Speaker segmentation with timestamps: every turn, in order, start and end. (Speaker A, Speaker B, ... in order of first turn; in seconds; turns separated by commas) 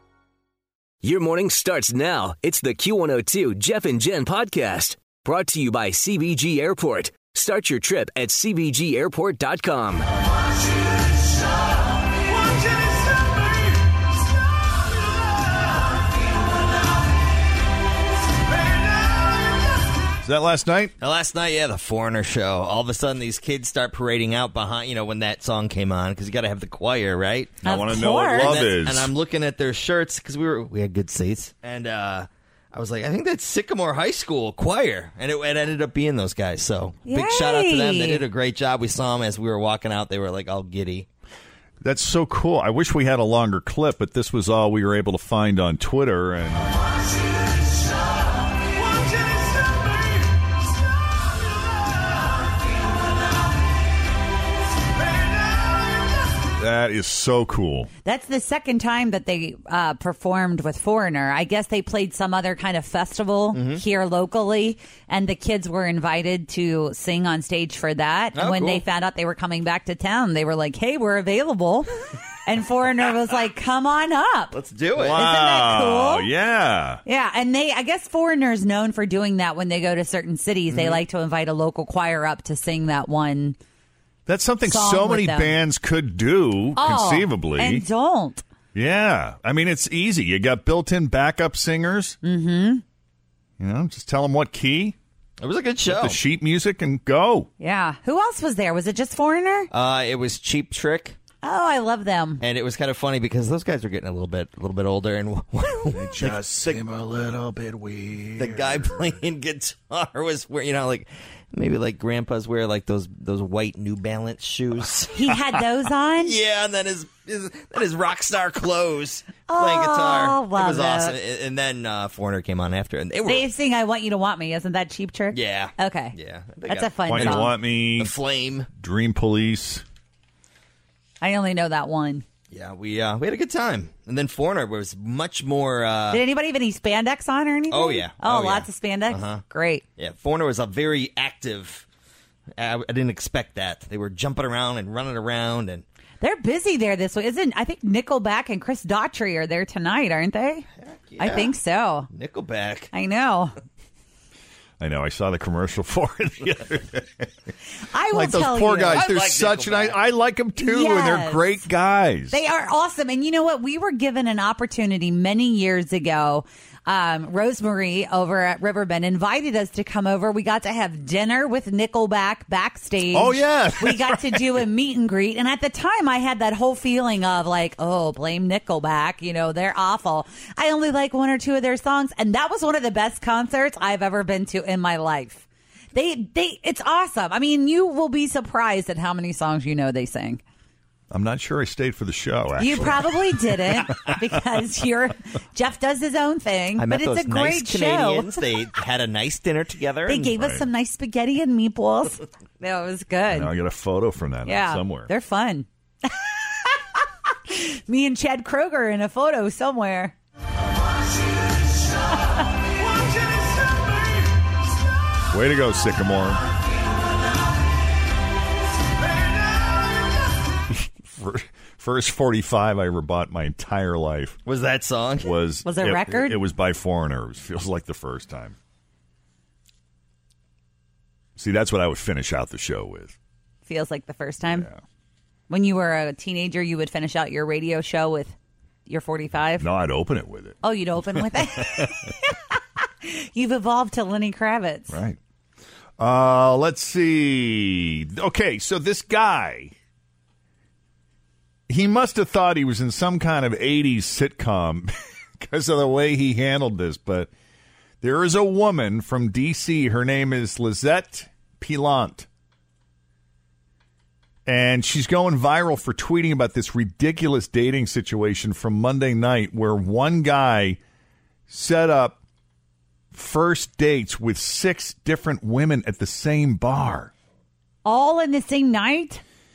Speaker A: 1.0-10.1, Speaker B: 20.2-20.9, Speaker C: 21.0-41.1, Speaker B: 27.6-29.1, Speaker D: 27.6-28.5, Speaker D: 37.1-38.2, Speaker B: 41.8-46.7, Speaker B: 56.6-57.9, Speaker D: 58.0-71.9, Speaker C: 63.5-63.8, Speaker C: 68.3-68.8, Speaker D: 72.5-74.5, Speaker C: 74.5-75.2, Speaker B: 74.9-77.0, Speaker D: 75.2-76.3, Speaker D: 77.0-83.6, Speaker C: 80.7-81.0, Speaker B: 84.3-87.9, Speaker D: 84.7-85.6, Speaker D: 86.8-88.4, Speaker B: 88.7-92.2, Speaker D: 92.2-92.8, Speaker B: 93.6-95.0, Speaker C: 95.4-96.2, Speaker B: 95.9-97.5, Speaker D: 97.6-99.7, Speaker C: 99.7-101.2, Speaker D: 101.4-102.4, Speaker C: 102.4-106.4, Speaker B: 105.9-109.2, Speaker C: 108.4-115.2, Speaker D: 115.1-116.4, Speaker C: 116.2-123.5, Speaker D: 119.5-121.2, Speaker D: 123.2-126.2, Speaker C: 125.3-128.7, Speaker D: 126.7-127.5, Speaker B: 127.1-128.1, Speaker B: 128.8-129.8, Speaker D: 131.2-132.2, Speaker C: 132.5-136.2, Speaker D: 136.1-139.8, Speaker C: 137.7-139.4, Speaker C: 140.0-141.8, Speaker C: 142.6-145.8, Speaker D: 146.2-150.7, Speaker C: 150.8-151.5, Speaker D: 151.2-152.1, Speaker C: 152.1-152.9, Speaker D: 152.9-153.6, Speaker B: 154.8-157.3, Speaker D: 157.9-159.0, Speaker B: 158.1-162.4, Speaker C: 158.9-160.0, Speaker D: 160.6-161.5, Speaker D: 162.3-190.4, Speaker B: 173.1-174.6, Speaker B: 191.1-193.2, Speaker D: 192.6-198.3, Speaker C: 196.8-200.3, Speaker D: 200.1-203.5, Speaker B: 200.4-200.7, Speaker B: 203.3-205.1, Speaker D: 204.4-210.1, Speaker B: 215.3-216.4, Speaker B: 220.7-224.4, Speaker C: 224.5-225.3, Speaker B: 225.2-228.6, Speaker D: 225.7-226.4, Speaker B: 231.4-233.2, Speaker D: 233.7-234.7, Speaker B: 234.5-234.8, Speaker D: 235.5-238.3, Speaker D: 238.9-239.7, Speaker B: 239.6-240.6, Speaker D: 240.6-245.0, Speaker B: 241.2-242.1, Speaker B: 244.9-245.2, Speaker B: 246.0-249.7, Speaker B: 251.7-257.3, Speaker B: 258.0-262.3, Speaker B: 264.5-270.8, Speaker B: 271.5-272.2, Speaker B: 273.1-277.1, Speaker D: 277.9-279.2